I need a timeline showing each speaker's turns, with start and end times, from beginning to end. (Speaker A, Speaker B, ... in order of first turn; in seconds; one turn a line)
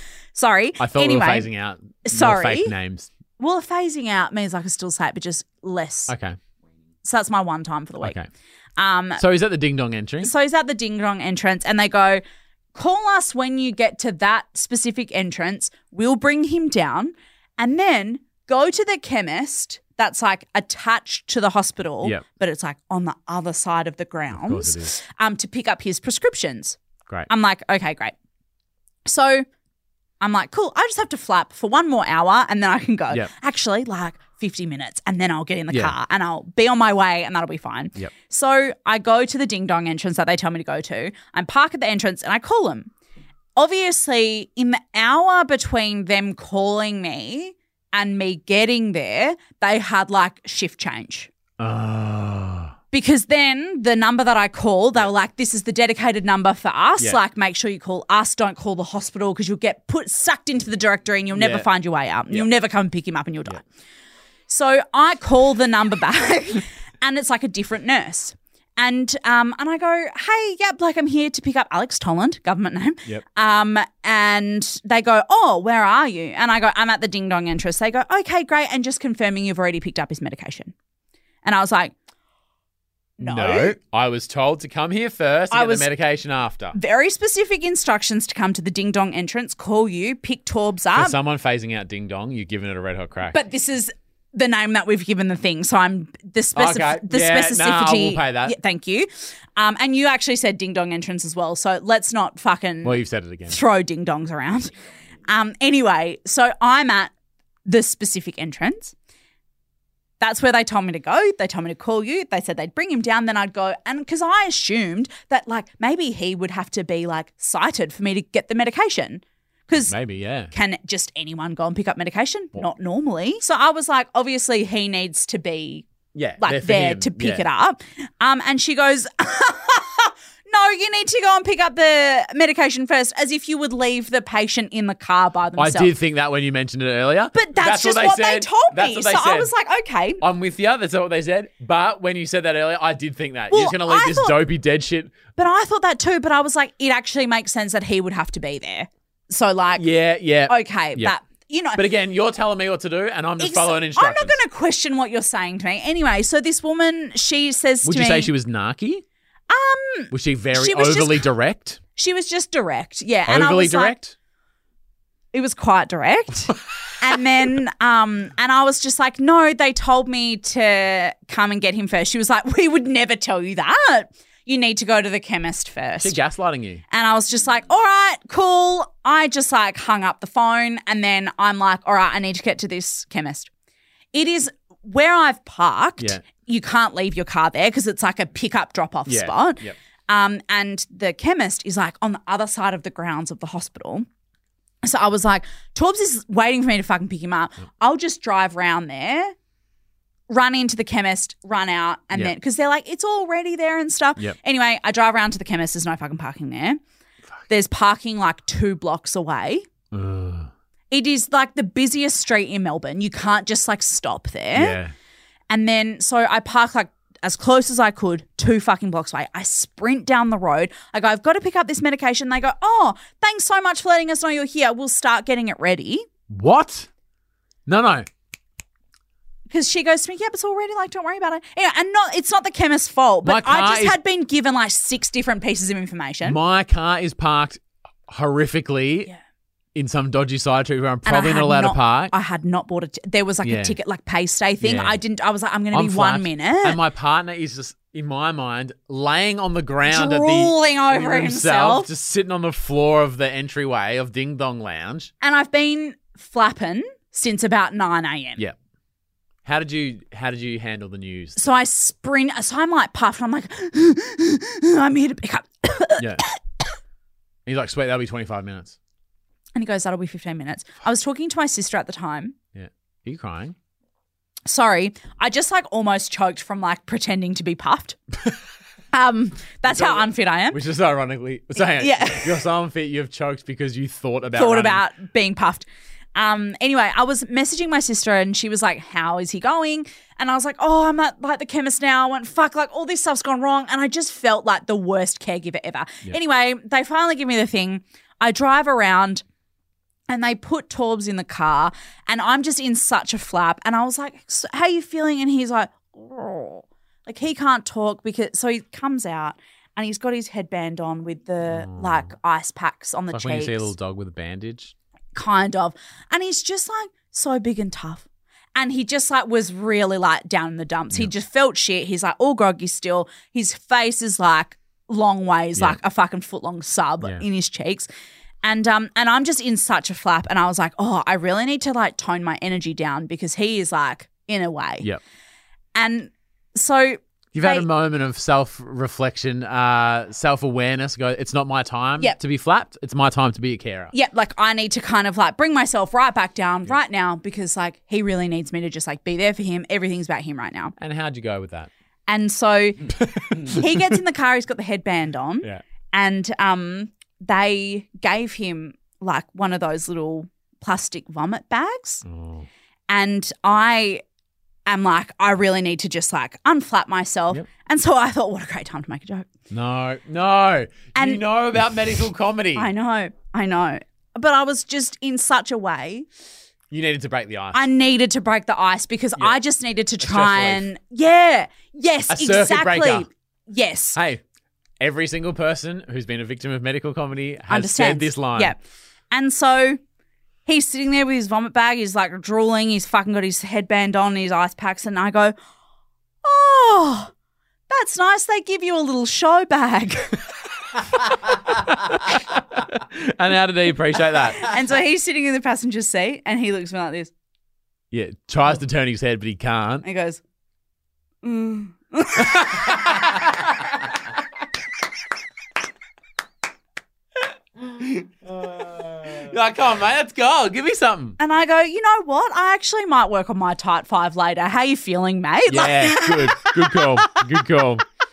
Speaker A: 0.3-1.5
Speaker B: 0.8-3.1
Speaker A: 2.0-2.8
Speaker A: 3.4-6.1
Speaker B: 6.1-6.4
Speaker A: 7.0-8.2
Speaker B: 8.0-8.3
Speaker A: 8.8-9.2
Speaker B: 9.2-10.3
Speaker A: 10.2-12.2
Speaker A: 12.8-26.8
Speaker B: 24.3-24.9
Speaker A: 27.3-28.1
Speaker A: 29.1-29.5
Speaker A: 30.2-42.9
Speaker B: 35.7-36.0
Speaker A: 43.6-51.3
Speaker B: 51.6-52.8
Speaker A: 52.9-63.6
Speaker B: 61.4-61.7
Speaker A: 64.5-80.7
Speaker A: 81.4-81.9
Speaker A: 83.2-83.8
Speaker B: 83.2-86.8
Speaker A: 85.5-85.9
Speaker A: 86.7-91.2
Speaker B: 90.9-93.4
Speaker A: 93.3-104.7
Speaker B: 96.5-98.6
Speaker B: 102.8-103.6
Speaker A: 105.2-107.1
Speaker A: 107.7-109.0
Speaker A: 110.2-119.9
Speaker B: 119.8-120.5
Speaker A: 120.5-125.9
Speaker B: 126.1-127.5
Speaker A: 126.4-135.9
Speaker B: 135.6-139.5
Speaker A: 137.3-140.2
Speaker B: 140.2-145.2
Speaker A: 143.5-144.4
Speaker A: 145.4-149.9
Speaker B: 149.8-151.2
Speaker A: 150.5-151.8
Speaker B: 151.8-154.4
Speaker A: 153.4-158.3
Speaker B: 157.8-159.0
Speaker A: 159.5-161.3
Speaker B: 160.1-161.8
Speaker A: 162.0-164.0
Speaker B: 163.3-164.2
Speaker A: 165.3-176.2
Speaker B: 176.0-176.8
Speaker A: 176.9-183.5
Speaker A: 184.1-194.1
Speaker B: 186.0-186.2
Speaker B: 189.1-189.8
Speaker A: 194.8-199.3
Speaker A: 200.3-206.8
Speaker A: 207.5-209.7
Speaker B: 209.9-210.5
Speaker A: 210.9-214.8
Speaker B: 214.6-214.9
Speaker A: 215.5-226.1
Speaker B: 226.3-226.9
Speaker B: 227.7-228.1
Speaker A: 229.5-236.4
Speaker B: 233.2-234.0
Speaker B: 236.2-239.1
Speaker B: 239.8-242.1
Speaker A: 241.1-246.8
Speaker B: 243.4-243.8
Speaker B: 244.6-245.0
Speaker B: 245.7-255.1
Speaker A: 249.9-251.9
Speaker A: 255.2-258.4
Speaker B: 259.4-261.4
Speaker A: 261.4-266.7
Speaker B: 266.0-266.2
Speaker B: 267.5-268.8
Speaker A: 269.6-272.4
Speaker B: 272.5-273.6
Speaker A: 274.5-278.0
Speaker A: 278.9-280.6
Speaker B: 279.7-284.9
Speaker A: 281.6-282.4
Speaker A: 284.3-299.2
Speaker A: 300.1-313.7
Speaker B: 311.5-312.1
Speaker B: 313.1-314.8
Speaker A: 315.1-327.9
Speaker A: 328.4-334.9
Speaker A: 335.8-337.7
Speaker B: 337.3-343.9
Speaker A: 343.9-350.8
Speaker B: 350.8-351.7
Speaker A: 352.1-362.0
Speaker B: 353.0-353.7
Speaker B: 362.0-362.5
Speaker A: 362.9-364.0
Speaker A: 364.7-369.3
Speaker B: 369.5-372.7
Speaker A: 370.9-371.2
Speaker A: 372.6-376.1
Speaker B: 376.7-377.6
Speaker A: 377.5-384.0
Speaker B: 380.0-380.7
Speaker B: 382.1-383.1
Speaker B: 384.0-384.2
Speaker B: 384.8-388.6
Speaker A: 387.5-388.6
Speaker A: 389.1-389.8
Speaker A: 390.5-395.4
Speaker A: 396.2-397.1
Speaker A: 397.7-400.3
Speaker B: 401.5-404.5
Speaker A: 404.4-407.1
Speaker B: 407.9-409.9
Speaker A: 409.8-410.2
Speaker A: 411.2-412.9
Speaker B: 412.2-413.7
Speaker B: 417.8-421.2
Speaker A: 421.2-427.4
Speaker B: 425.5-427.9